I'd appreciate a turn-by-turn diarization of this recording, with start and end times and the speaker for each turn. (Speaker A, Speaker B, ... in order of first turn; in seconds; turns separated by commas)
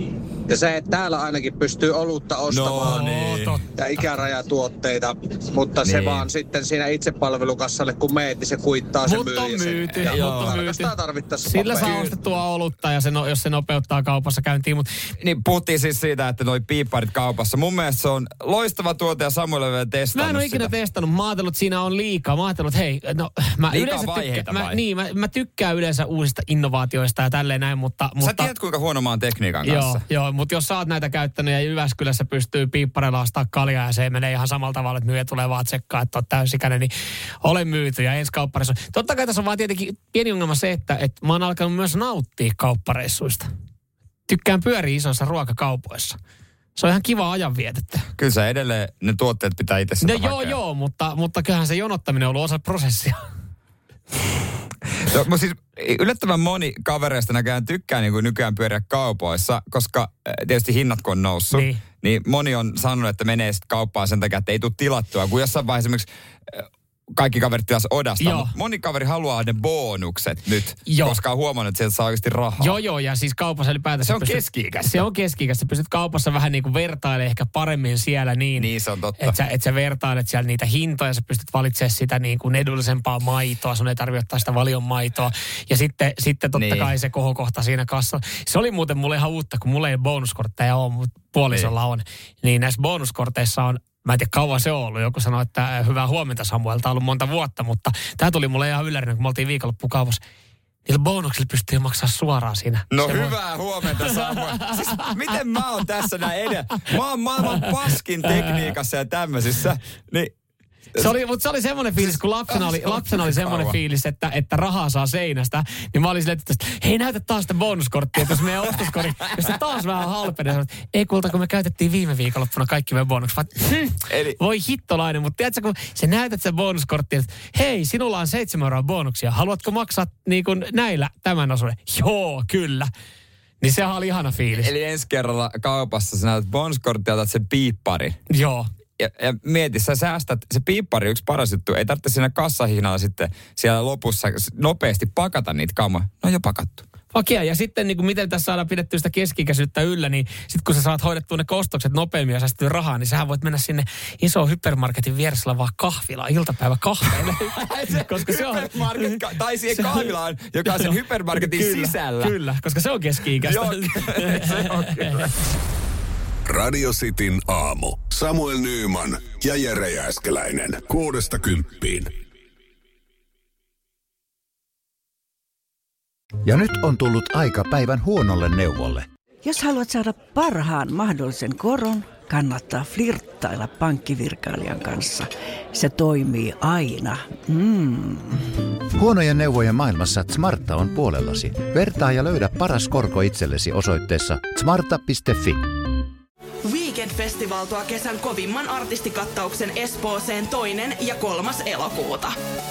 Speaker A: 0.5-3.0, Speaker B: 2.5-3.6, Speaker C: 2.8-4.1, Speaker A: 3.8-12.0, Speaker B: 5.8-6.3, Speaker C: 9.0-14.9, Speaker B: 10.0-10.6, Speaker B: 11.8-12.1, Speaker B: 15.2-20.7, Speaker C: 20.1-28.5, Speaker B: 23.7-24.8, Speaker B: 28.2-30.1, Speaker C: 29.6-43.5, Speaker C: 44.3-46.2, Speaker C: 46.8-48.1, Speaker B: 48.2-50.6, Speaker C: 50.0-53.2, Speaker B: 55.0-72.8, Speaker C: 61.5-61.8, Speaker C: 68.2-68.5, Speaker C: 70.9-71.2, Speaker C: 72.6-78.7, Speaker B: 74.0-75.1, Speaker B: 78.6-79.4, Speaker C: 79.2-100.2, Speaker B: 86.5-86.9, Speaker C: 100.9-103.3, Speaker B: 102.9-110.3, Speaker C: 103.9-105.0, Speaker C: 108.3-108.7, Speaker C: 111.0-132.9, Speaker B: 112.0-113.8, Speaker B: 124.1-124.4, Speaker C: 133.6-134.7, Speaker B: 134.5-138.2, Speaker C: 138.3-138.7, Speaker B: 139.0-146.8, Speaker C: 147.1-160.1, Speaker B: 157.2-162.4, Speaker C: 160.7-165.3, Speaker B: 163.4-165.3, Speaker D: 166.5-172.1, Speaker E: 176.4-179.1, Speaker F: 179.4-188.4, Speaker E: 188.9-195.7, Speaker G: 196.6-202.3